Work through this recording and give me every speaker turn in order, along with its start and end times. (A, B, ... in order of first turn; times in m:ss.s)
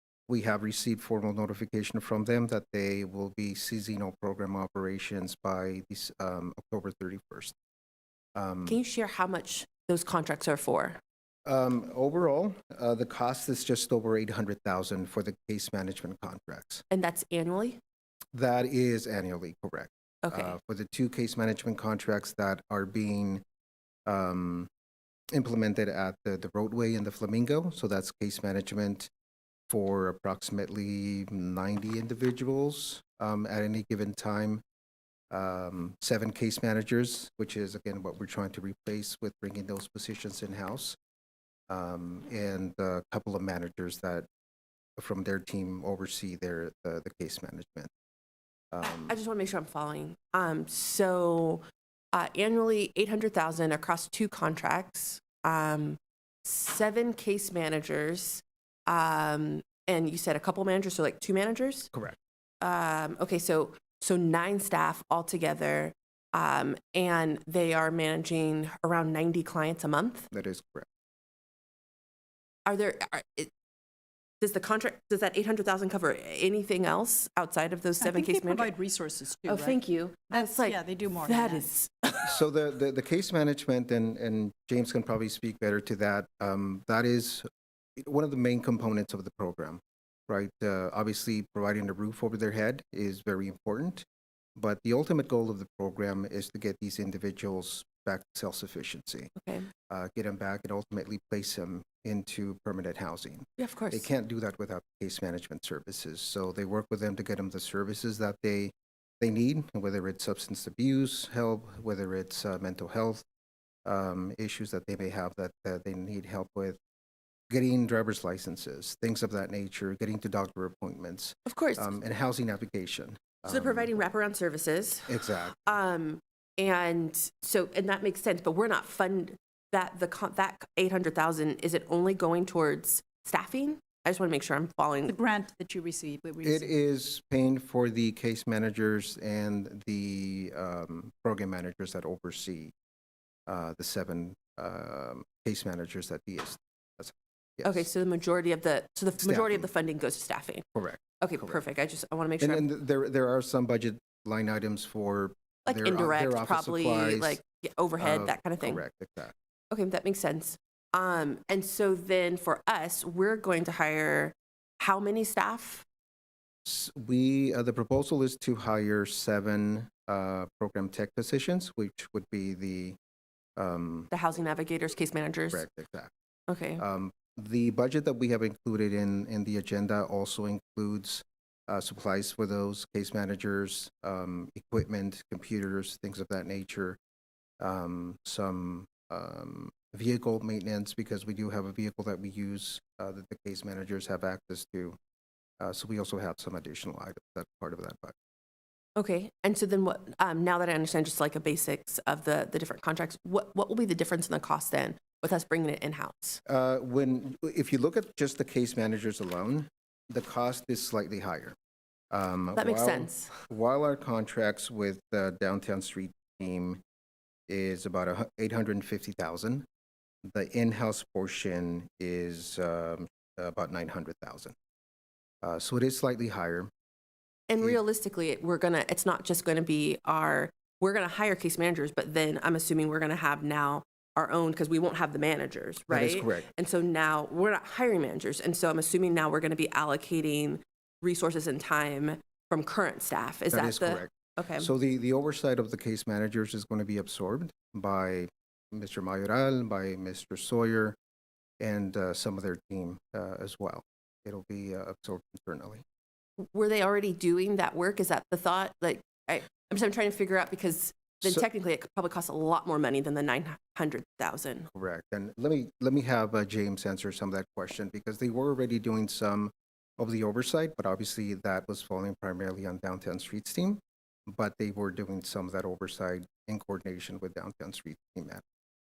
0:00.3-0:07.5 A
0:08.4-0:08.8 A
0:08.6-0:11.0 B
0:11.5-0:16.8 A
0:16.9-0:17.8 B
0:18.3-0:23.4 A
0:20.2-0:20.6 B
0:24.0-0:24.7 A
0:25.3-0:29.1 A
0:29.7-0:34.6 A
0:35.3-0:41.0 A
0:41.7-0:44.3 A
0:45.0-0:47.9 A
0:48.7-0:49.2 A
0:48.8-1:01.9 B
1:02.6-1:10.3 B
1:10.3-1:10.9 A
1:12.7-1:13.5 B
1:14.4-1:18.7 B
1:18.0-1:19.8 C
1:19.4-1:21.9 B
1:20.3-1:22.2 C
1:22.2-1:27.4 A
1:28.0-1:34.0 A
1:34.6-1:39.3 A
1:39.4-1:39.7 B
1:39.9-1:53.2 A
1:43.6-1:44.1 B
1:53.8-1:56.8 A
1:57.5-2:04.0 A
2:01.5-2:01.9 B
2:03.5-2:15.2 B
2:05.1-2:05.8 A
2:15.1-2:16.7 C
2:16.4-2:22.7 A
2:23.5-2:27.8 A
2:27.6-2:30.6 B
2:29.2-2:29.7 A
2:30.8-2:31.6 A
2:31.2-2:32.7 B
2:32.4-2:37.4 A
2:35.7-2:38.8 B
2:38.0-2:39.3 A
2:39.7-2:45.8 B
2:46.7-2:53.0 A
2:53.6-2:54.1 A
2:54.1-2:55.6 B
2:55.5-2:56.1 A
2:56.5-2:56.8 B
2:56.8-3:07.0 A
3:07.6-3:15.0 A
3:15.6-3:18.2 A
3:19.0-3:26.4 B
3:26.5-3:31.5 A
3:32.1-3:36.8 A
3:32.5-3:33.4 B
3:37.5-3:39.6 A
3:40.3-3:44.5 A
3:45.4-3:46.7 A
3:47.5-4:04.7 B
3:55.9-3:56.5 A
4:03.5-4:11.0 A
4:11.6-4:15.8 A
4:16.4-4:24.7 B
4:24.7-4:38.4 A